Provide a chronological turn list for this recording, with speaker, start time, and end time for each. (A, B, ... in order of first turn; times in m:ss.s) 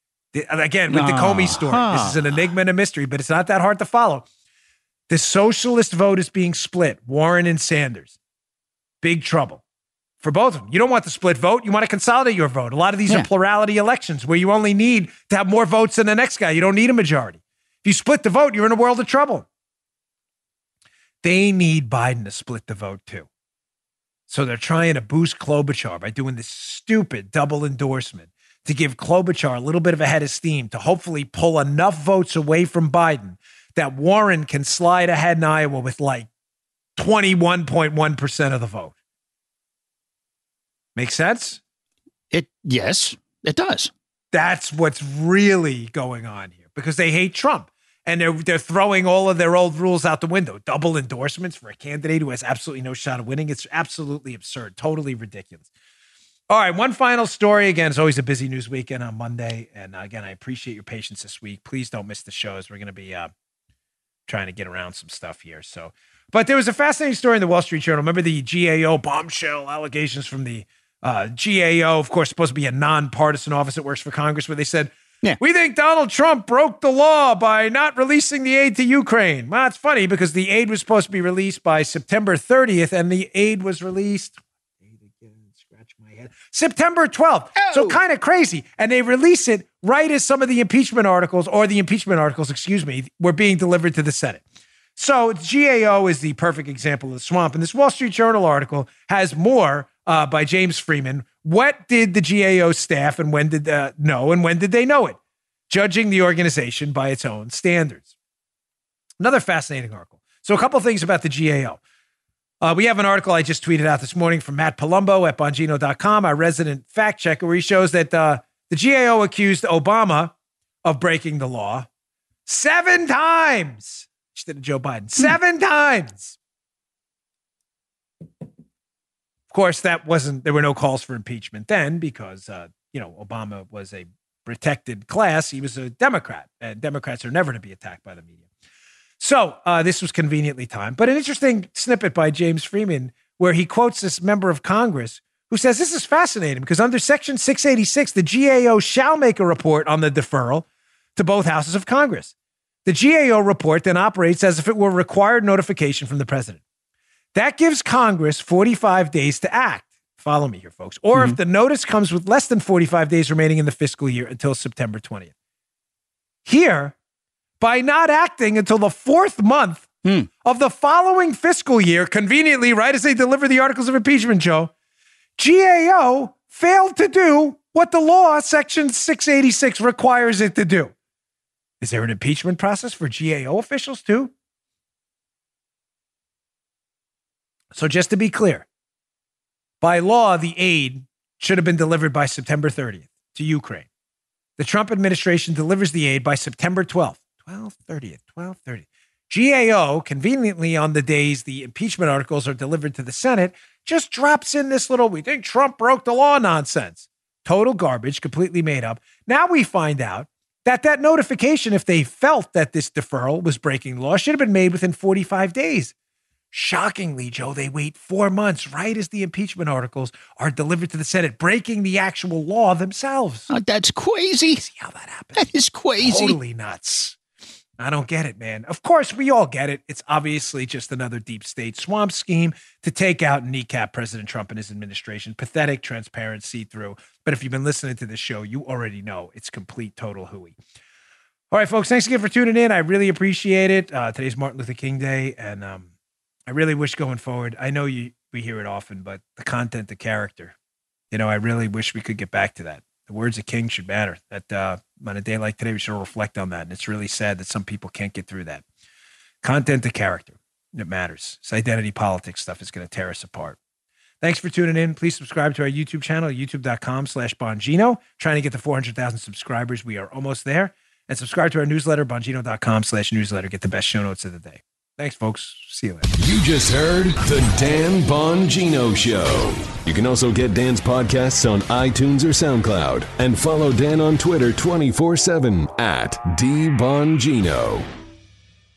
0:00.3-0:04.2 A
0:00.9-0:02.3 B
0:05.1-0:08.1 A
0:09.0-0:09.6 A
0:10.2-0:19.5 A
0:21.2-0:23.3 A
0:24.3-0:36.3 A
0:37.0-0:38.9 A
0:41.0-0:41.6 A
0:42.3-0:43.9 B
0:44.3-0:55.7 A
0:56.5-1:03.3 A
1:04.3-1:34.4 A
1:27.6-1:28.0 B
1:35.0-1:45.2 A
1:45.7-1:48.1 A
1:49.2-1:51.8 A
1:52.6-2:00.3 A
2:00.8-2:01.9 A
2:02.4-2:06.4 A
2:09.5-2:18.4 A
2:19.2-2:32.3 A
2:32.8-2:36.6 A
2:37.3-2:45.3 A
2:46.4-2:47.0 A
2:47.6-2:54.7 A
2:55.4-3:00.9 A
3:01.8-3:04.3 A
3:07.7-3:08.6 A
3:09.8-3:13.9 A
3:14.6-3:35.9 A
3:36.5-3:43.5 A
3:43.5-3:44.6 B
3:44.6-3:45.5 A
3:45.3-3:46.4 B
3:46.0-3:47.2 A
3:47.8-4:00.6 A
4:01.5-4:05.9 A
4:06.5-4:10.6 A
4:11.1-4:18.6 A
4:19.4-4:23.6 A
4:24.2-4:36.1 A
4:36.2-4:47.9 C